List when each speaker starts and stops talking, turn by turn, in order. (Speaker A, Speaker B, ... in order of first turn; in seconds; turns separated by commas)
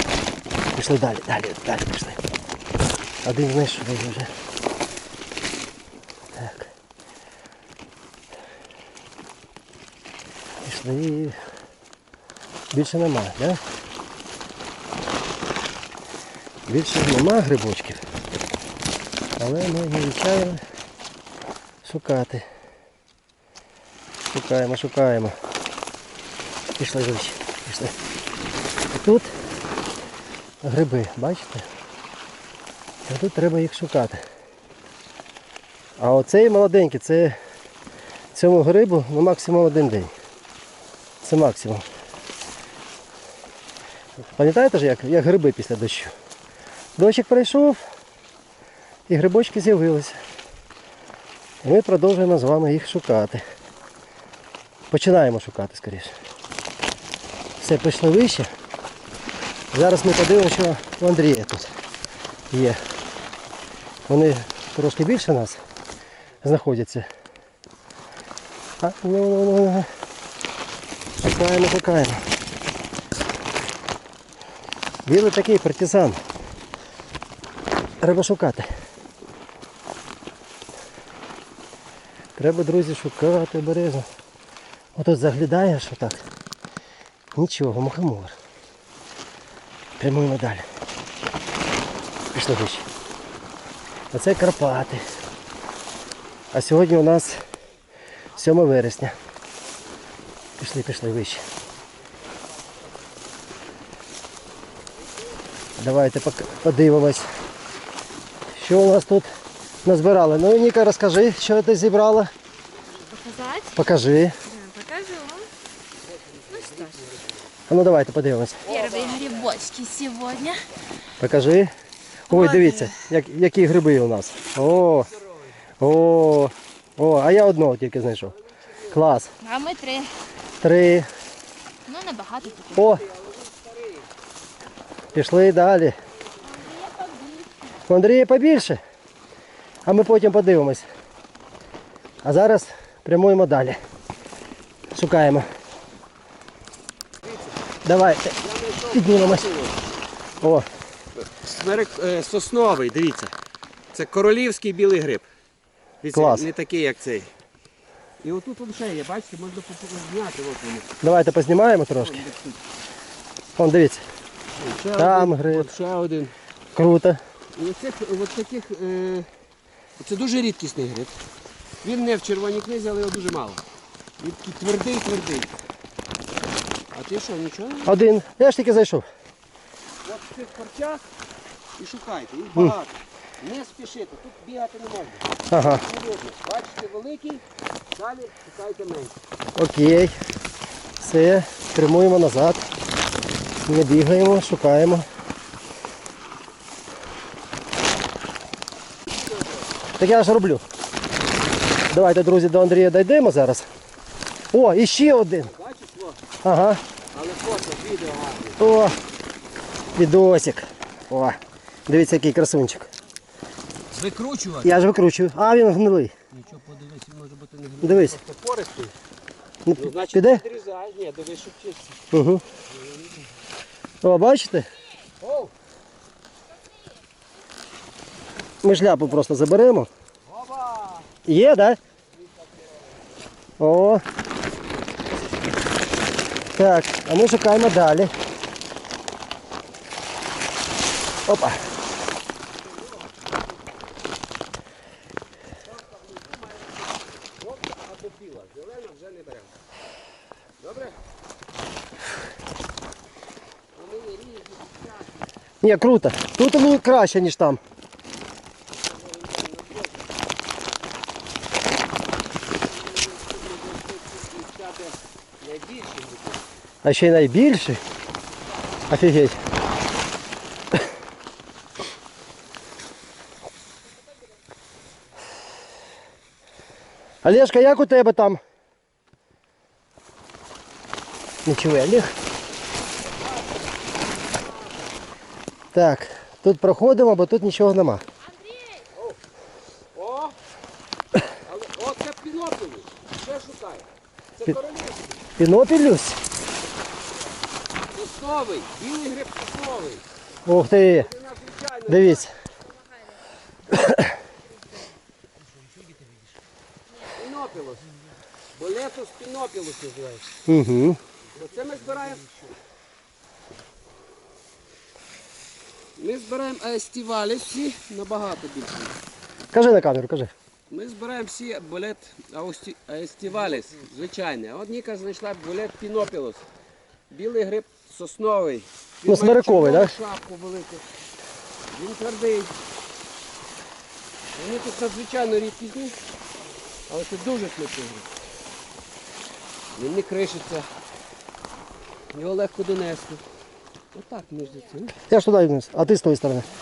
Speaker A: 0.8-2.2, Speaker A: 3.2-4.3, Speaker A: 6.3-6.7, Speaker A: 10.6-11.4, Speaker A: 12.7-13.6, Speaker A: 16.7-18.0, Speaker A: 19.4-20.6, Speaker A: 21.8-22.4, Speaker A: 24.3-25.4, Speaker A: 26.8-27.9, Speaker A: 28.9-29.3, Speaker A: 30.6-31.6, Speaker A: 33.1-34.2, Speaker A: 36.0-37.4, Speaker A: 38.3-40.1, Speaker A: 41.2-41.9, Speaker A: 44.2-46.1, Speaker A: 47.0-47.8, Speaker A: 49.1-50.2, Speaker A: 51.6-53.4, Speaker A: 54.9-56.1, Speaker A: 57.6-58.5, Speaker A: 59.7-61.7, Speaker A: 62.5-62.8, Speaker A: 64.1-65.6, Speaker A: 66.4-67.1, Speaker A: 68.8-69.9, Speaker A: 71.2-72.3, Speaker A: 75.1-76.2, Speaker A: 78.0-78.7, Speaker A: 82.4-84.1, Speaker A: 85.0-86.2, Speaker A: 87.3-88.4, Speaker A: 90.0-90.7, Speaker A: 92.3-92.9, Speaker A: 94.1-95.0, Speaker A: 96.5-97.4, Speaker A: 98.3-99.2, Speaker A: 100.6-101.5, Speaker A: 105.8-107.3, Speaker A: 108.5-109.3, Speaker A: 109.8-112.3, Speaker B: 113.1-113.9, Speaker A: 113.7-114.4, Speaker B: 114.4-115.5, Speaker C: 116.0-117.5, Speaker B: 116.5-117.0, Speaker A: 117.7-118.7, Speaker C: 118.6-119.6, Speaker B: 118.7-120.7, Speaker A: 121.2-121.7, Speaker A: 122.3-125.1, Speaker B: 122.3-122.9, Speaker C: 124.6-125.5, Speaker A: 125.8-128.3, Speaker C: 128.3-129.2, Speaker A: 128.9-129.3, Speaker B: 129.4-130.1, Speaker A: 130.6-131.1, Speaker B: 131.9-132.8, Speaker C: 132.4-134.1, Speaker A: 132.7-133.0, Speaker A: 135.1-136.0, Speaker C: 135.1-136.9, Speaker B: 136.5-137.8, Speaker A: 137.9-138.8, Speaker A: 139.8-140.9, Speaker A: 142.2-143.8, Speaker A: 144.9-145.5, Speaker C: 147.2-147.7, Speaker A: 147.8-148.3, Speaker C: 148.3-149.9, Speaker A: 148.9-149.5, Speaker A: 150.4-150.7, Speaker C: 151.2-153.3, Speaker C: 153.9-155.3, Speaker C: 156.0-157.3, Speaker A: 156.1-156.5, Speaker C: 158.2-160.9, Speaker A: 161.0-162.3, Speaker C: 162.0-162.6, Speaker A: 163.6-164.1, Speaker C: 164.6-166.3, Speaker A: 165.0-165.7, Speaker A: 166.8-167.2, Speaker C: 167.6-169.3, Speaker C: 170.0-171.2, Speaker C: 171.8-173.6, Speaker C: 174.2-175.5, Speaker C: 176.9-177.9, Speaker A: 177.8-179.1, Speaker C: 180.0-181.1, Speaker C: 181.8-187.4, Speaker A: 185.5-185.8, Speaker C: 187.9-189.2, Speaker A: 189.6-190.2, Speaker A: 191.0-192.7, Speaker A: 193.7-195.1, Speaker C: 199.1-199.7, Speaker A: 200.0-200.6, Speaker A: 201.9-203.7, Speaker A: 204.5-205.5, Speaker C: 205.4-206.2, Speaker A: 206.4-206.8, Speaker C: 207.1-208.6, Speaker A: 208.6-209.0, Speaker A: 209.9-212.9, Speaker C: 213.9-214.8, Speaker A: 214.6-216.1, Speaker C: 216.3-218.9, Speaker A: 217.8-218.2, Speaker A: 219.7-220.4, Speaker C: 219.7-222.0, Speaker A: 222.1-222.4, Speaker C: 222.7-223.2, Speaker A: 224.0-224.7, Speaker C: 225.2-225.5, Speaker A: 228.6-229.9, Speaker C: 230.3-231.2, Speaker A: 231.2-231.8, Speaker C: 232.2-233.2, Speaker A: 233.6-234.0, Speaker A: 236.5-238.1, Speaker A: 241.3-241.6, Speaker C: 242.6-243.8, Speaker C: 245.6-249.6, Speaker C: 250.6-251.0, Speaker C: 253.8-255.3, Speaker A: 255.6-257.6, Speaker C: 258.8-260.1, Speaker C: 262.5-266.5, Speaker A: 266.8-267.8, Speaker A: 268.9-269.4, Speaker A: 277.2-278.4, Speaker A: 281.4-282.1, Speaker C: 283.1-284.8, Speaker A: 285.7-288.1, Speaker C: 288.9-289.2, Speaker C: 289.9-290.4, Speaker C: 291.4-293.9, Speaker C: 294.4-295.2, Speaker A: 295.4-296.2, Speaker C: 297.9-300.0, Speaker A: 300.5-301.1, Speaker C: 300.8-302.3, Speaker A: 301.9-302.3, Speaker B: 302.8-303.2, Speaker A: 303.7-304.1, Speaker C: 307.0-307.9, Speaker C: 308.6-310.3, Speaker A: 310.5-311.0, Speaker C: 311.3-312.6, Speaker C: 316.0-319.0, Speaker A: 319.5-320.3, Speaker C: 320.7-326.5, Speaker C: 327.1-330.8, Speaker A: 329.1-329.9, Speaker C: 331.7-332.5, Speaker C: 334.4-336.0, Speaker C: 336.9-338.1, Speaker C: 339.8-340.7, Speaker C: 342.1-343.2, Speaker C: 343.9-345.0, Speaker A: 345.1-346.5